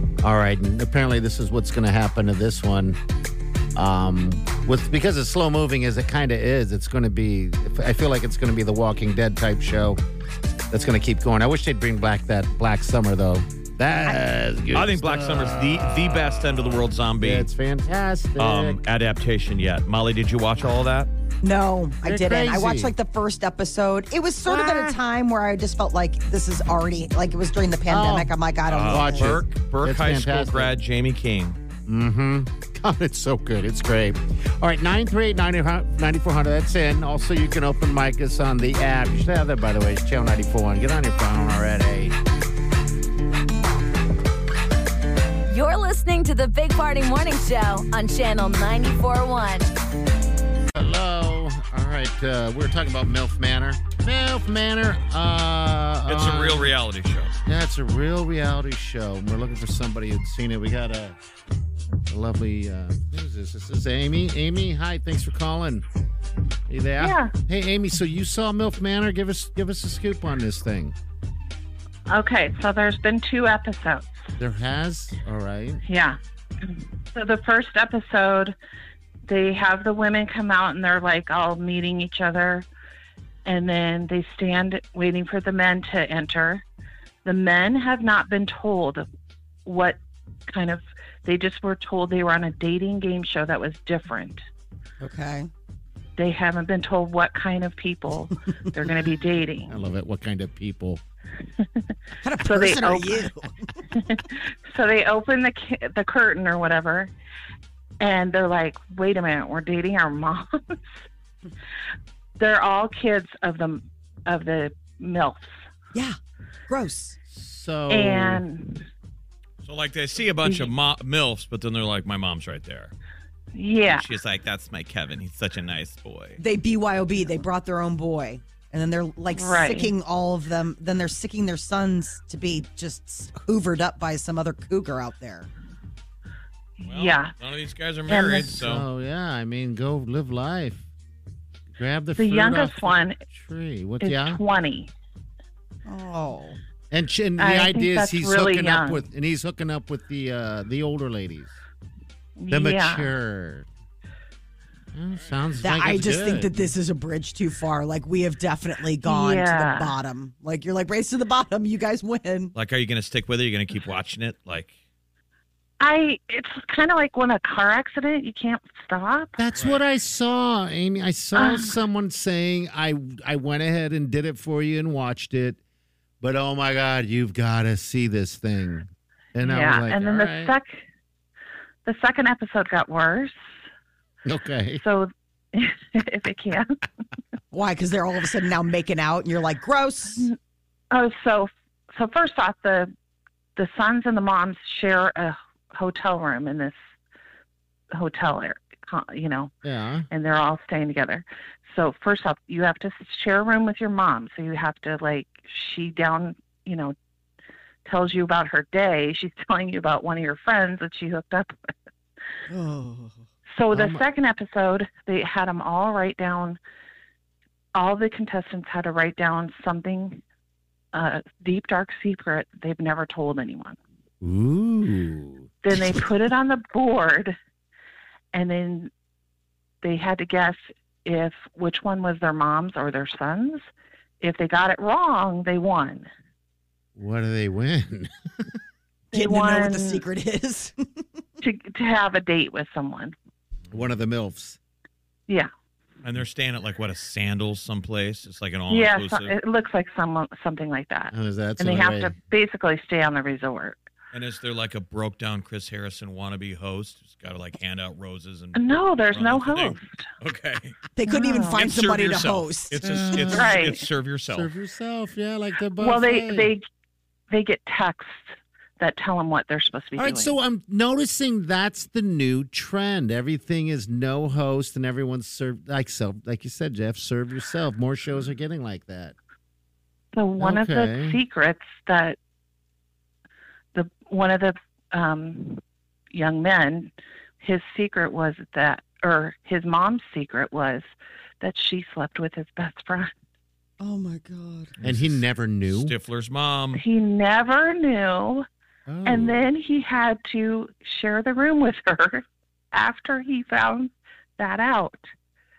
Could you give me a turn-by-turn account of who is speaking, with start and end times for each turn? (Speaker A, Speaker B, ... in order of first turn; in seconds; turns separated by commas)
Speaker A: 0.2-3.0, Speaker A: 3.7-10.0, Speaker A: 10.7-16.6, Speaker B: 14.7-17.5, Speaker A: 17.2-18.8, Speaker B: 18.4-21.1, Speaker C: 21.4-29.4, Speaker A: 22.0-22.9, Speaker A: 24.4-25.0, Speaker A: 27.9-30.7, Speaker B: 28.7-31.6, Speaker A: 31.9-42.2, Speaker D: 45.5-49.7, Speaker A: 50.7-56.7, Speaker B: 56.1-57.3, Speaker A: 57.5-61.1, Speaker A: 62.1-65.8, Speaker A: 66.7-71.0, Speaker E: 67.0-67.3, Speaker E: 72.1-74.1, Speaker A: 74.4-75.8, Speaker E: 75.8-78.5, Speaker E: 79.3-82.7, Speaker E: 83.4-86.6, Speaker E: 87.2-89.0, Speaker E: 89.6-94.4, Speaker C: 95.0-95.5, Speaker E: 96.2-99.7, Speaker A: 99.7-101.0, Speaker E: 101.6-101.8, Speaker C: 102.2-103.5, Speaker E: 102.4-103.3, Speaker E: 103.9-107.1, Speaker E: 108.0-110.9, Speaker E: 112.4-115.5, Speaker C: 116.7-117.2, Speaker A: 117.3-118.4, Speaker E: 117.9-118.9, Speaker B: 119.6-122.9, Speaker E: 120.4-120.7, Speaker E: 123.5-124.1, Speaker B: 123.8-126.4, Speaker C: 126.4-135.5, Speaker E: 129.3-129.9, Speaker E: 136.8-137.3, Speaker B: 136.8-138.8, Speaker E: 138.1-138.5, Speaker A: 138.4-140.8, Speaker A: 141.7-144.4, Speaker E: 142.2-143.2, Speaker E: 144.0-144.9, Speaker C: 145.8-146.6, Speaker A: 146.9-151.6, Speaker E: 147.4-149.0, Speaker E: 152.4-153.1, Speaker A: 152.5-153.7, Speaker A: 154.9-156.6, Speaker C: 155.6-162.5, Speaker E: 159.0-159.9, Speaker B: 162.5-164.7, Speaker E: 165.8-169.3, Speaker A: 169.4-175.6, Speaker E: 171.3-171.7, Speaker A: 176.2-180.5, Speaker E: 179.4-180.8, Speaker E: 181.8-183.3, Speaker A: 184.2-184.8, Speaker E: 184.8-186.8, Speaker C: 187.5-190.3, Speaker E: 190.9-192.9, Speaker E: 193.6-196.7, Speaker E: 197.9-199.5, Speaker A: 199.6-200.1, Speaker E: 200.1-206.9, Speaker E: 207.8-211.5, Speaker C: 212.5-213.2, Speaker E: 213.5-216.6, Speaker A: 213.7-214.0, Speaker E: 217.7-220.2, Speaker E: 220.9-223.8, Speaker A: 224.2-226.0, Speaker E: 225.6-227.3, Speaker E: 228.3-228.9, Speaker E: 229.8-233.6, Speaker E: 234.2-236.1, Speaker A: 236.9-238.6, Speaker E: 239.1-240.0, Speaker C: 239.1-240.7, Speaker E: 241.4-243.1, Speaker A: 243.7-244.6, Speaker B: 246.0-249.3, Speaker E: 248.7-253.8, Speaker A: 251.1-252.1, Speaker B: 254.1-260.8, Speaker E: 258.6-260.0, Speaker C: 260.9-262.8, Speaker E: 261.1-261.6, Speaker B: 261.5-264.5, Speaker A: 262.8-263.6, Speaker E: 263.3-263.8, Speaker A: 264.3-266.5, Speaker E: 265.8-266.6, Speaker E: 267.3-268.3, Speaker E: 268.8-270.3, Speaker A: 269.9-279.1, Speaker E: 280.1-282.2, Speaker A: 280.4-281.2, Speaker E: 283.7-290.9, Speaker E: 291.4-293.1, Speaker C: 293.8-294.7, Speaker B: 294.8-296.8, Speaker A: 294.8-295.9, Speaker E: 296.8-298.4, Speaker A: 298.9-299.4, Speaker E: 299.0-305.0